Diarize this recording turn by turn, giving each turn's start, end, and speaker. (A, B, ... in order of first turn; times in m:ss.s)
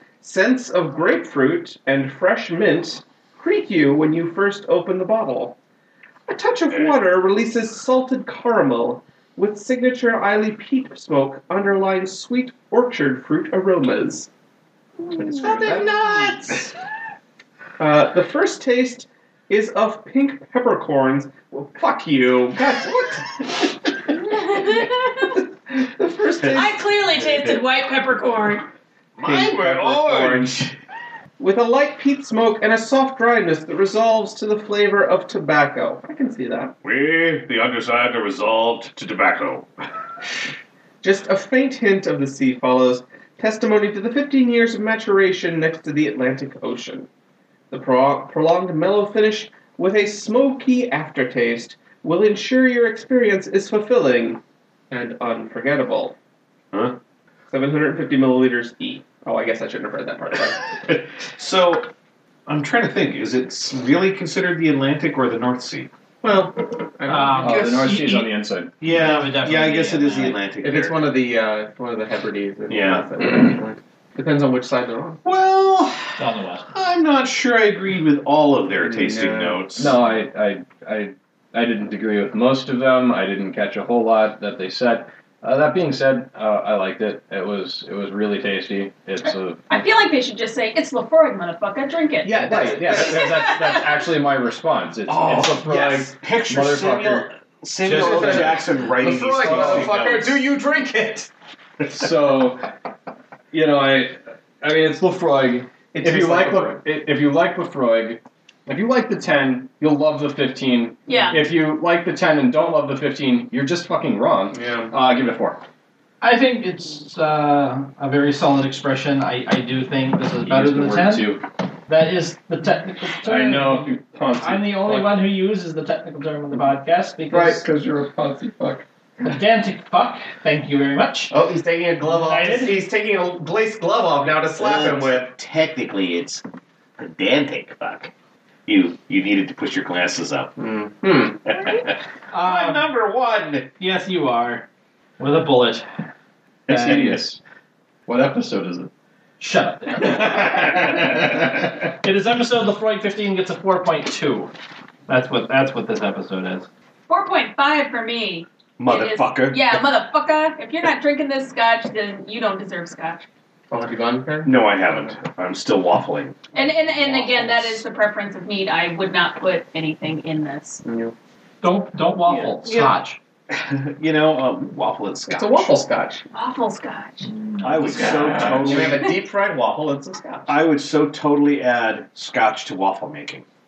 0:00.2-0:05.6 A
0:06.3-0:14.3 A
0:15.2-0:16.7 A
0:15.5-0:16.4 B
0:17.8-0:26.8 A
0:24.3-0:25.3 C
0:26.5-0:28.7 C
0:29.2-0:30.8 D
0:29.2-0:30.6 A
0:31.4-0:36.8 A
0:36.8-0:39.7 D
0:41.0-0:47.1 A
0:47.7-0:56.2 A
0:56.7-0:57.0 D
0:57.5-1:00.8 A
1:00.8-1:01.9 D
1:02.5-1:05.9 D
1:06.2-1:07.9 A
1:07.1-1:08.3 E
1:07.4-1:08.8 B
1:08.8-1:11.0 D
1:08.9-1:10.4 E
1:10.6-1:15.2 A
1:12.7-1:13.1 D
1:15.2-1:20.0 D
1:16.2-1:16.7 E
1:18.8-1:19.6 A
1:19.8-1:29.8 B
1:29.2-1:34.1 C
1:32.2-1:33.5 A
1:32.2-1:37.3 B
1:35.1-1:40.4 D
1:37.8-1:41.3 B
1:37.9-1:38.7 A
1:39.2-1:40.1 A
1:41.8-1:42.7 B
1:43.5-1:55.6 B
1:45.9-1:46.8 A
1:51.1-1:51.4 C
1:54.5-1:54.9 A
1:56.2-2:07.6 E
2:00.4-2:01.4 B
2:03.2-2:05.1 B
2:07.3-2:08.8 B
2:09.2-2:11.3 E
2:11.3-2:15.3 A
2:12.0-2:12.8 E
2:14.6-2:16.4 D
2:17.0-2:18.1 D
2:18.7-2:20.5 D
2:20.6-2:21.5 A
2:21.5-2:21.8 D
2:21.6-2:21.9 C
2:22.3-2:22.9 E
2:22.3-2:23.7 D
2:23.8-2:24.7 E
2:25.2-2:25.9 E
2:26.7-2:27.2 D
2:26.7-2:27.4 B
2:26.7-2:27.1 E
2:28.1-2:28.9 B
2:29.4-2:34.5 E
2:30.3-2:31.3 B
2:35.1-2:36.7 E
2:37.1-2:43.3 C
2:38.8-2:39.7 D
2:43.7-2:45.1 A
2:44.4-2:46.4 D
2:46.5-2:50.8 C
2:47.2-2:47.4 A
2:50.8-2:51.1 A
2:51.6-2:53.2 E
2:52.3-2:53.0 D
2:53.5-2:55.8 D
2:55.3-2:56.2 A
2:56.3-2:57.3 C
2:57.2-2:58.6 E
2:57.6-2:59.1 D
2:58.0-2:58.9 B
2:58.4-3:00.5 A
3:00.5-3:03.4 D